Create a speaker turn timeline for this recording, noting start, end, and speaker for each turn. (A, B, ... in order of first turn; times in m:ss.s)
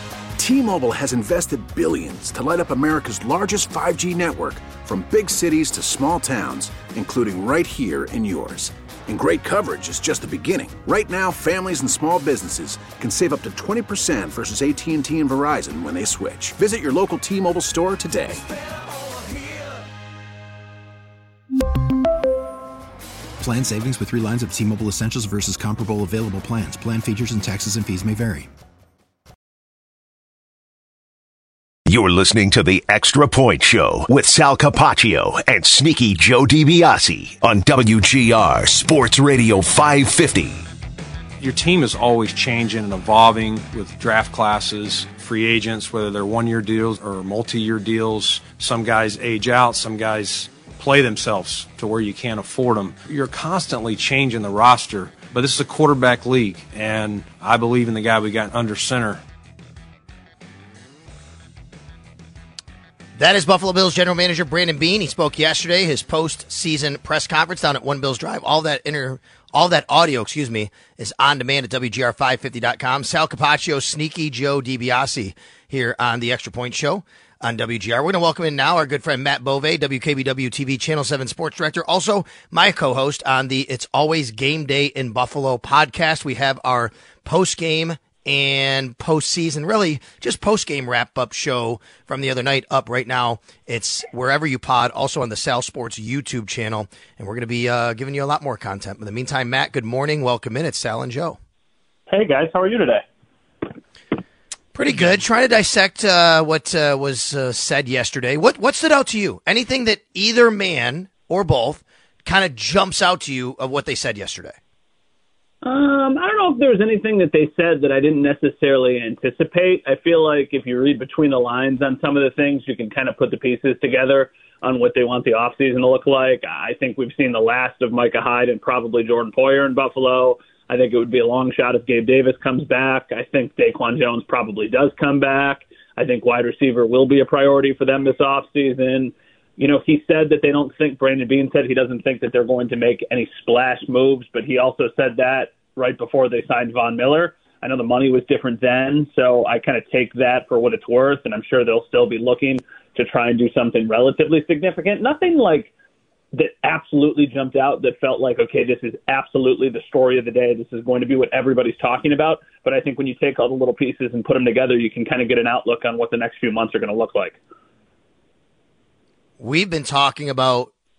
0:00.4-0:18.4 A
0:23.4-0:28.5 B
0:31.9-0:40.7 C
0:41.4-0:59.2 D
1:03.2-1:41.4 E
1:42.1-1:43.0 F
1:44.7-1:54.6 E
1:55.6-2:35.7 F
2:36.3-2:47.4 F
2:49.4-2:50.7 E